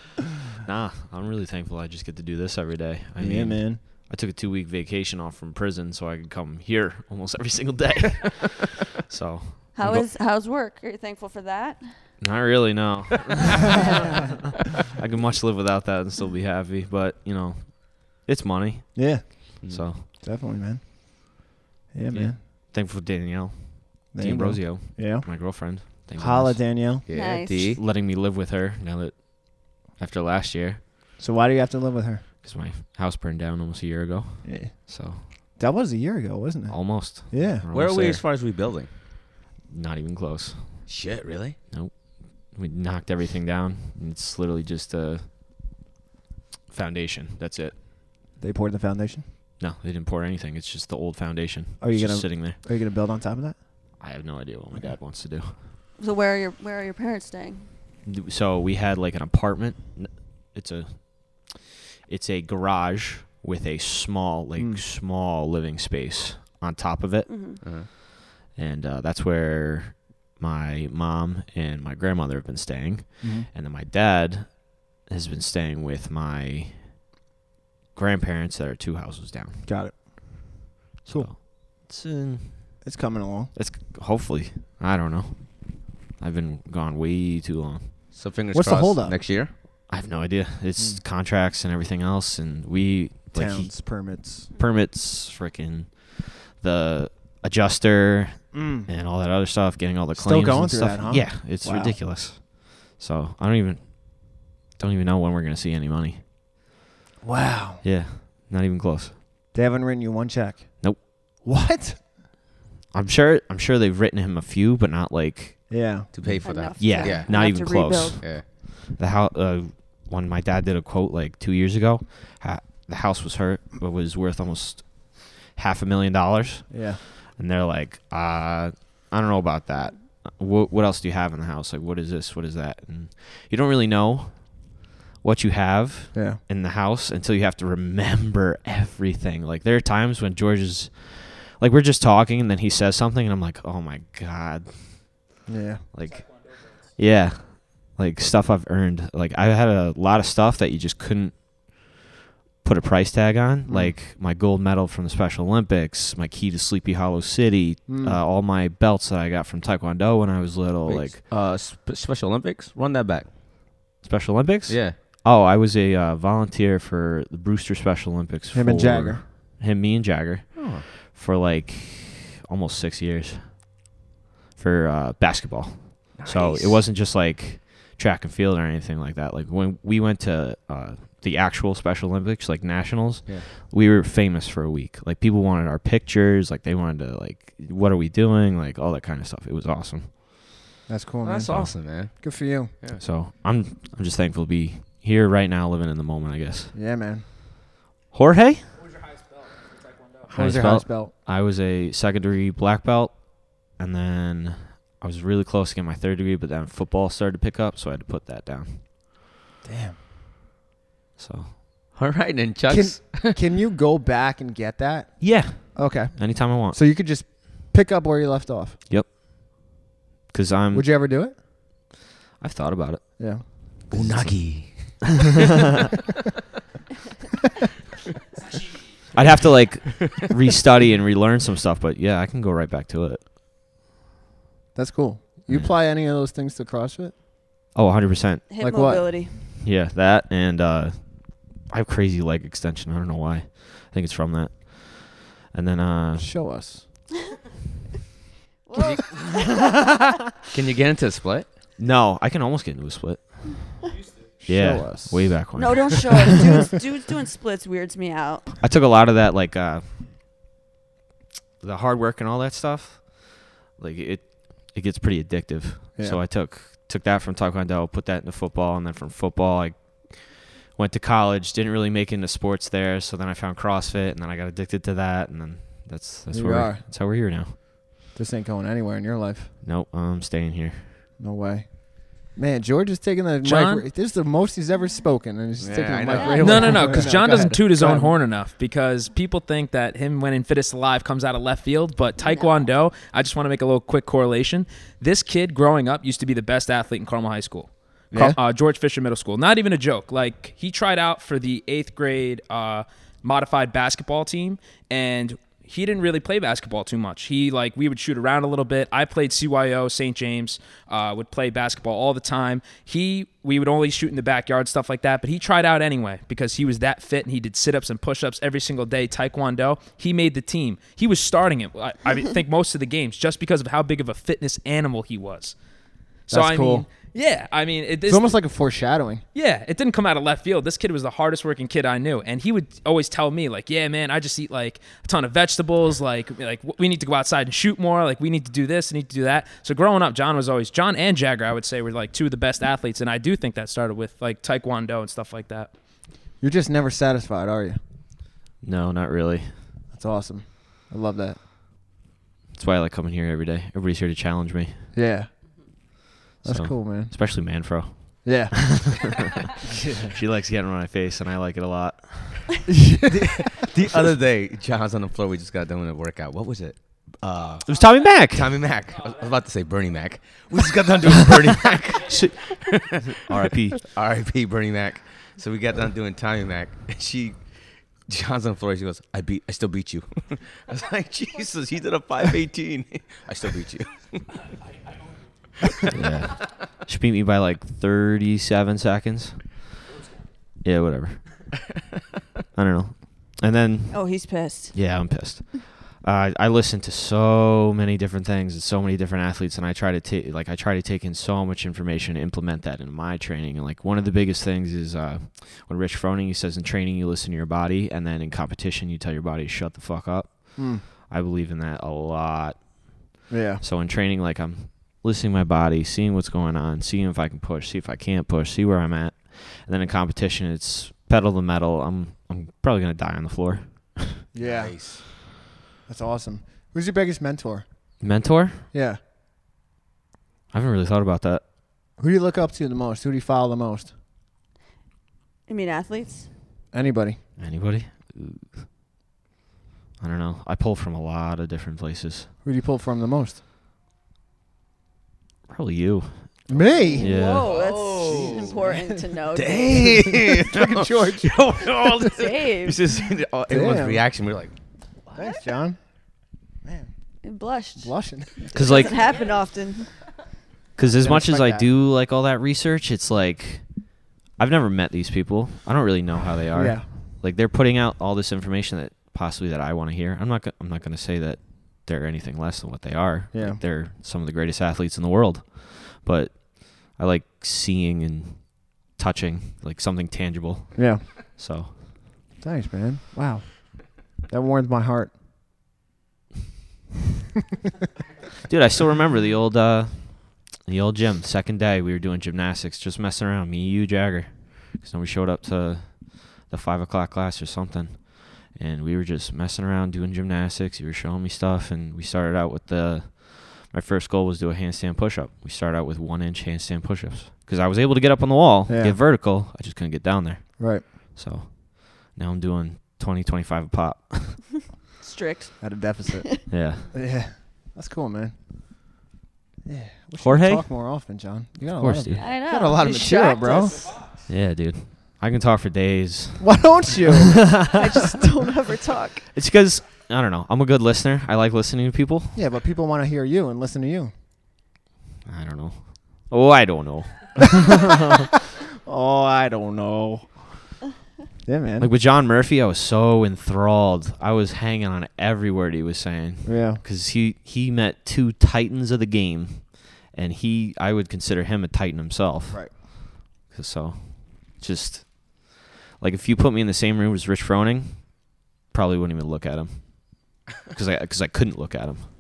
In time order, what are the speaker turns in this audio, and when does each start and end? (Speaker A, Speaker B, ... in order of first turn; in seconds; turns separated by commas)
Speaker A: 0.6-10.0, Speaker B: 3.2-3.8, Speaker C: 9.7-11.8, Speaker A: 12.2-20.1, Speaker B: 18.9-19.4, Speaker D: 19.6-19.9, Speaker B: 20.0-21.4, Speaker B: 21.9-22.4, Speaker A: 22.1-27.0, Speaker B: 24.1-25.3, Speaker B: 25.9-27.0, Speaker D: 27.1-27.8, Speaker C: 27.1-27.7, Speaker A: 27.7-30.8, Speaker B: 31.2-32.2, Speaker A: 32.4-35.2, Speaker B: 34.4-34.9, Speaker B: 35.6-37.6, Speaker A: 36.7-38.2, Speaker D: 37.7-39.0, Speaker A: 39.6-40.9, Speaker D: 40.9-41.6, Speaker A: 41.7-45.3, Speaker A: 46.7-47.8, Speaker B: 48.4-49.2, Speaker A: 49.6-52.6, Speaker B: 51.8-53.6, Speaker A: 54.0-55.6, Speaker C: 56.0-57.7, Speaker A: 58.0-77.1, Speaker B: 64.6-64.8, Speaker C: 67.3-67.6, Speaker D: 67.6-67.9, Speaker B: 73.2-73.5, Speaker A: 77.9-79.7, Speaker B: 79.6-81.3, Speaker A: 81.0-82.8, Speaker B: 82.8-83.5, Speaker A: 83.5-88.0, Speaker D: 88.1-89.5, Speaker B: 88.5-89.2, Speaker A: 89.9-106.2, Speaker B: 93.3-94.5, Speaker B: 98.5-98.9, Speaker B: 100.1-102.0, Speaker B: 107.2-107.8, Speaker A: 107.8-109.2, Speaker B: 109.5-112.0, Speaker A: 112.9-152.0, Speaker B: 115.7-116.1, Speaker D: 116.1-117.3, Speaker C: 116.4-118.3, Speaker D: 118.2-118.5, Speaker B: 126.7-127.0, Speaker B: 136.1-136.4, Speaker B: 145.4-145.8, Speaker A: 152.6-161.2, Speaker B: 153.7-153.9, Speaker B: 157.9-158.2, Speaker D: 160.8-163.3, Speaker A: 164.0-173.9, Speaker D: 164.7-165.0, Speaker B: 168.5-169.2, Speaker D: 170.5-170.8, Speaker A: 174.6-190.6, Speaker D: 176.1-176.8, Speaker B: 190.9-192.7, Speaker D: 191.2-193.0, Speaker A: 193.0-196.7, Speaker B: 196.7-197.2, Speaker A: 198.1-198.7, Speaker B: 200.3-201.1, Speaker A: 200.3-208.8, Speaker B: 209.6-210.0, Speaker A: 211.2-211.8, Speaker D: 211.9-213.4, Speaker B: 212.7-218.8, Speaker A: 215.2-216.8, Speaker A: 218.9-219.7, Speaker A: 220.3-220.9, Speaker B: 220.7-221.3, Speaker A: 222.4-225.2, Speaker B: 223.2-223.4, Speaker D: 223.9-225.5, Speaker A: 229.1-233.2, Speaker D: 229.8-230.3, Speaker B: 234.7-237.1, Speaker A: 237.7-238.4, Speaker C: 238.5-239.3, Speaker B: 238.6-239.1, Speaker A: 239.6-246.3, Speaker B: 246.2-246.8, Speaker C: 248.7-250.0, Speaker D: 248.8-249.2, Speaker D: 250.5-251.5, Speaker A: 251.8-253.8, Speaker B: 254.4-255.6, Speaker A: 254.4-256.4, Speaker C: 255.6-258.5, Speaker A: 258.6-260.0, Speaker A: 261.6-277.6, Speaker B: 276.3-276.8, Speaker B: 278.1-279.5, Speaker A: 279.6-281.0, Speaker B: 281.2-288.2, Speaker E: 283.4-283.9, Speaker D: 285.6-287.4, Speaker C: 286.1-286.9, Speaker E: 286.4-325.6, Speaker C: 292.2-292.6, Speaker E: 326.3-328.3, Speaker B: 326.3-326.9, Speaker B: 328.1-329.2, Speaker E: 329.3-345.7, Speaker B: 346.4-347.8, Speaker A: 348.6-349.6, Speaker B: 349.9-351.4, Speaker A: 352.5-354.9, Speaker B: 354.9-355.3, Speaker B: 356.4-357.1, Speaker A: 356.4-362.7, Speaker B: 358.2-358.6, Speaker B: 359.6-360.1, Speaker B: 362.7-363.4, Speaker D: 363.5-377.4, Speaker A: 367.6-368.6, Speaker A: 372.1-373.9, Speaker D: 378.1-384.4, Speaker A: 385.9-389.7, Speaker A: 390.6-391.5, Speaker A: 392.5-424.2, Speaker C: 393.9-394.7, Speaker B: 410.6-410.8, Speaker B: 413.3-413.6, Speaker B: 424.3-425.2, Speaker D: 424.4-425.0, Speaker B: 425.9-427.6, Speaker A: 428.0-428.7, Speaker B: 428.7-429.0, Speaker A: 430.5-431.4, Speaker B: 432.0-433.9, Speaker C: 435.5-436.3, Speaker B: 436.7-437.2, Speaker A: 437.4-438.6, Speaker A: 440.0-442.3, Speaker B: 442.4-443.4, Speaker A: 445.5-446.5, Speaker B: 446.5-447.1, Speaker D: 446.9-448.5, Speaker C: 447.0-450.0, Speaker A: 447.0-447.5, Speaker B: 448.1-449.0, Speaker D: 449.3-454.5, Speaker B: 449.7-451.4, Speaker C: 452.1-452.8, Speaker B: 453.5-454.0, Speaker B: 455.1-455.8, Speaker C: 457.2-457.9, Speaker B: 457.8-458.8, Speaker A: 458.5-459.1, Speaker C: 458.5-460.0, Speaker A: 460.8-481.9, Speaker B: 461.0-461.7, Speaker B: 466.5-466.9, Speaker B: 473.3-473.6, Speaker B: 480.7-481.0, Speaker B: 482.4-485.1, Speaker A: 488.5-514.7, Speaker B: 508.7-509.0, Speaker B: 510.6-510.9, Speaker C: 515.0-516.4, Speaker B: 515.6-518.3, Speaker A: 516.5-516.9, Speaker B: 519.6-523.9, Speaker A: 520.2-520.7, Speaker A: 521.8-522.3, Speaker C: 522.2-524.0, Speaker A: 524.3-528.2, Speaker B: 526.4-527.5, Speaker C: 527.7-529.3, Speaker A: 529.3-532.4, Speaker B: 532.3-534.1, Speaker A: 535.2-538.2, Speaker B: 538.8-540.4, Speaker B: 541.4-541.9, Speaker A: 541.8-562.1, Speaker B: 546.4-546.8